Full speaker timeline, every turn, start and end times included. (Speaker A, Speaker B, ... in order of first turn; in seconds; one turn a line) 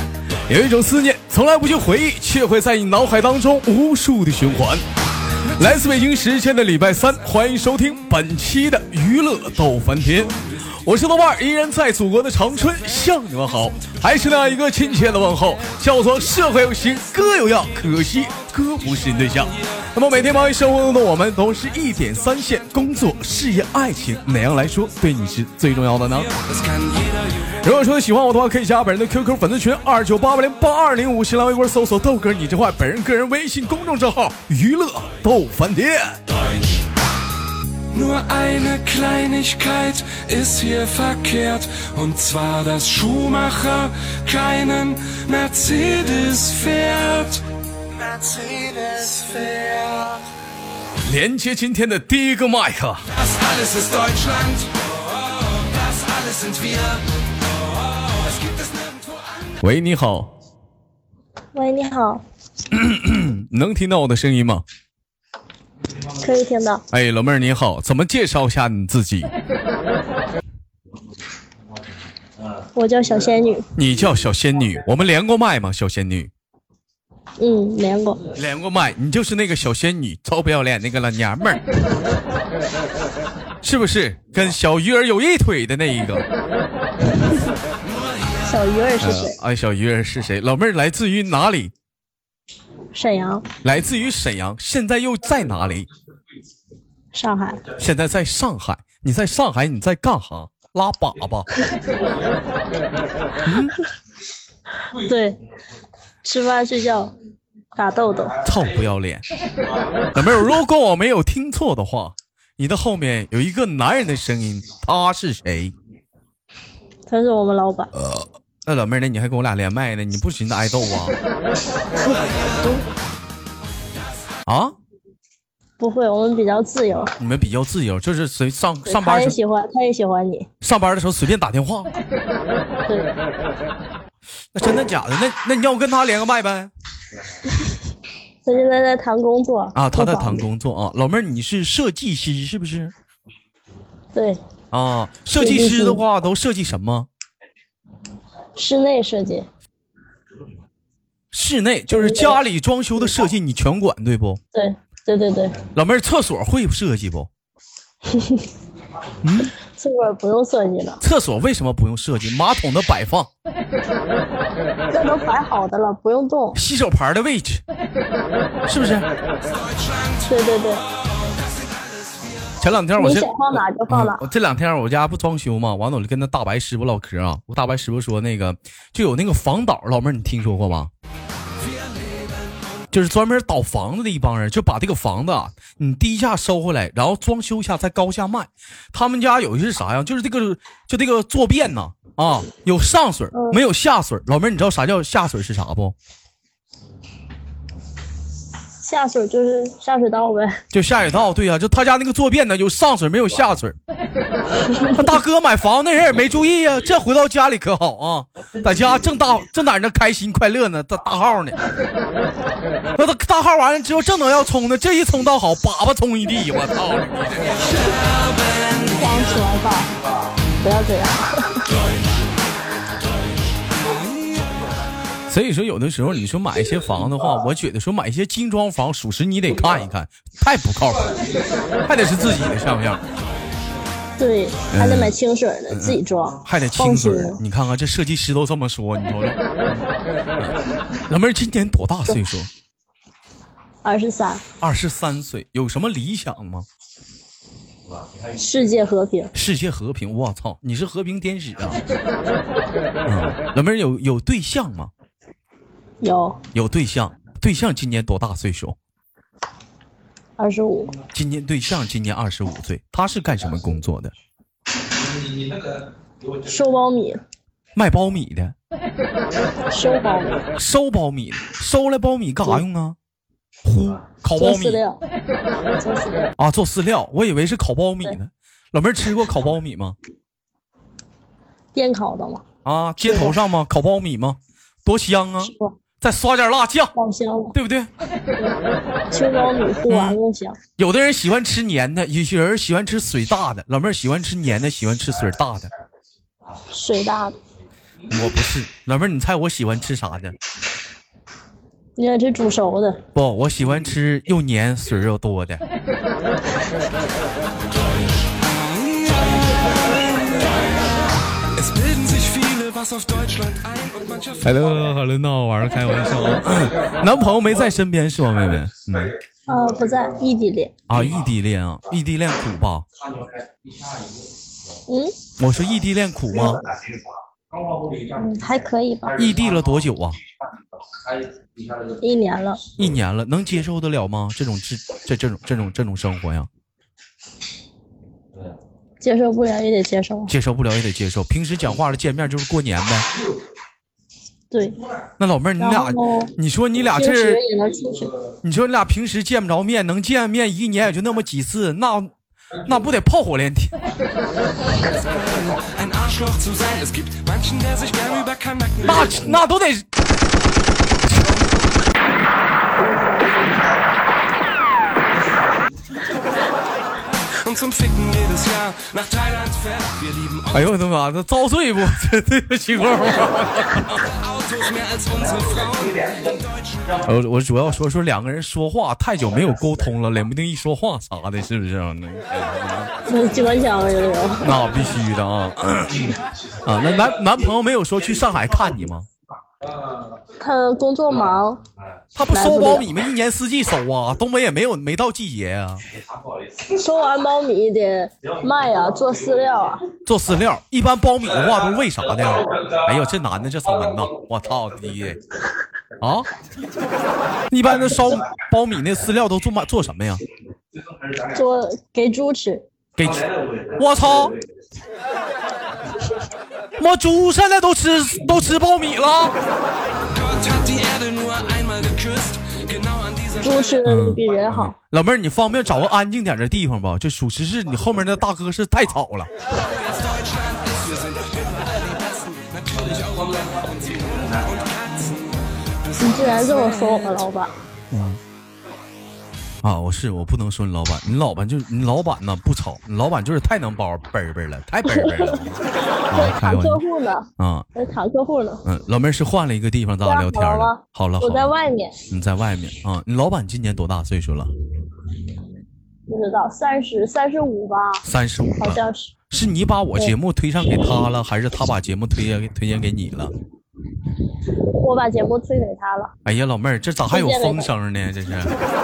Speaker A: 0.5-4.8
Speaker A: 5.5-26.4
Speaker A: 27.4-36.2
Speaker B: 37.9-47.5
Speaker B: 48.2-50.2
Speaker A: 51.0-53.0
Speaker B: 53.8-54.3
Speaker A: 59.6-60.3
Speaker C: 61.5-62.2
Speaker A: 62.7-64.6
Speaker C: 66.2-66.8
Speaker A: 66.9-69.3
Speaker C: 72.7-73.7
Speaker A: 73.8-76.3
Speaker C: 77.4-78.2
Speaker A: 78.3-81.6
Speaker A: 83.6-86.2
Speaker C: 88.4-89.4
Speaker A: 89.0-91.7
Speaker C: 92.9-93.5
Speaker A: 93.6-95.9
Speaker C: 97.1-97.6
Speaker A: 97.8-101.5
Speaker A: 103.4-103.7
Speaker C: 104.8-105.4
Speaker C: 106.2-107.1
Speaker C: 107.7-108.4
Speaker A: 108.4-109.2
Speaker A: 110.1-115.7
Speaker C: 117.1-117.9
Speaker A: 117.9-121.1
Speaker C: 122.1-122.8
Speaker A: 124.5-124.8
Speaker C: 125.8-127.1
Speaker A: 127.2-129.4
Speaker C: 128.9-130.5
Speaker A: 130.6-132.0
Speaker C: 132.8-133.1
Speaker A: 134.5-136.7
Speaker C: 138.4-140.4
Speaker A: 139.7-142.9
Speaker C: 144.1-144.4
Speaker A: 144.7-147.1
Speaker C: 145.4-146.0
Speaker C: 148.6-149.5
Speaker A: 151.3-154.4
Speaker C: 151.9-152.4
Speaker C: 154.5-155.6
Speaker A: 155.7-157.3
Speaker C: 158.1-158.5
Speaker A: 159.2-159.5
Speaker C: 159.7-161.0
Speaker A: 161.0-163.3
Speaker C: 164.9-166.6
Speaker A: 166.5-167.6
Speaker A: 168.7-169.1
Speaker C: 170.2-170.8
Speaker A: 172.6-173.3
Speaker C: 173.0-174.2
Speaker A: 173.9-180.9
Speaker A: 182.9-195.9
Speaker C: 193.3-193.6
Speaker C: 198.8-200.6
Speaker A: 200.7-203.8
Speaker C: 204.6-205.1
Speaker A: 204.9-211.6
Speaker A: 212.9-217.8
Speaker C: 218.9-219.9
Speaker C: 220.6-221.7
Speaker A: 225.3-231.3
Speaker A: 231.8-233.0
Speaker C: 234.2-237.4
Speaker A: 234.7-235.2
Speaker A: 235.7-239.8
Speaker A: 241.1-242.5
Speaker C: 243.8-244.4
Speaker A: 244.6-246.7
Speaker C: 248.3-249.3
Speaker A: 249.3-251.8
Speaker A: 253.1-254.9
Speaker C: 256.0-256.4
Speaker A: 256.5-258.8
Speaker C: 260.4-260.9
Speaker A: 261.1-264.1
Speaker C: 266.4-267.2
Speaker A: 267.8-268.6
Speaker C: 269.7-270.4
Speaker A: 270.5-272.9
Speaker A: 273.6-274.8
Speaker C: 274.4-275.0
Speaker C: 275.8-276.3
Speaker A: 276.4-279.9
Speaker C: 281.7-282.4
Speaker A: 282.6-286.9
Speaker C: 283.0-283.4
Speaker C: 285.4-285.8
Speaker C: 286.9-287.6
Speaker A: 287.5-287.9
Speaker C: 289.1-290.6
Speaker A: 289.9-290.2
Speaker A: 290.8-295.7
Speaker C: 296.7-297.4
Speaker A: 298.1-300.3
Speaker C: 301.9-303.0
Speaker A: 303.1-305.6
Speaker B: 311.6-314.1
Speaker A: 314.4-319.1
Speaker C: 319.5-320.7
Speaker A: 320.9-322.9
Speaker C: 324.9-325.1
Speaker A: 325.4-326.6
Speaker C: 328.1-329.2
Speaker A: 329.1-330.2
Speaker C: 332.0-332.6
Speaker A: 332.8-336.5
Speaker C: 339.0-340.3
Speaker A: 340.3-343.1
Speaker C: 344.5-344.8
Speaker A: 345.2-347.4
Speaker C: 345.6-346.3
Speaker C: 346.9-348.1
Speaker A: 348.4-352.1
Speaker A: 352.6-353.8
Speaker B: 355.6-358.8
Speaker A: 358.8-359.9
Speaker B: 367.5-369.7
Speaker A: 370.5-374.1
Speaker B: 375.0-375.7
Speaker A: 377.0-382.9
Speaker C: 383.1-384.5
Speaker A: 384.4-389.1
Speaker C: 390.4-391.6
Speaker A: 392.1-395.8
Speaker C: 392.3-392.9
Speaker C: 396.6-399.8
Speaker A: 400.1-405.2
Speaker A: 406.0-406.3
Speaker A: 407.5-410.2
Speaker C: 411.3-412.6
Speaker A: 412.9-414.4
Speaker A: 416.8-419.4
Speaker B: 420.4-422.3
Speaker C: 423.4-424.7
Speaker A: 423.8-429.3
Speaker C: 436.0-437.6
Speaker A: 437.9-438.2
Speaker A: 439.6-446.8
Speaker C: 444.9-445.4
Speaker C: 446.1-448.6
Speaker A: 447.4-447.7
Speaker A: 448.6-451.5
Speaker C: 450.1-452.0
Speaker A: 452.1-454.5
Speaker C: 456.1-458.0
Speaker A: 458.0-458.8
Speaker C: 458.6-459.1
Speaker A: 459.3-463.3
Speaker C: 464.7-466.1
Speaker A: 466.2-468.5
Speaker C: 467.1-467.7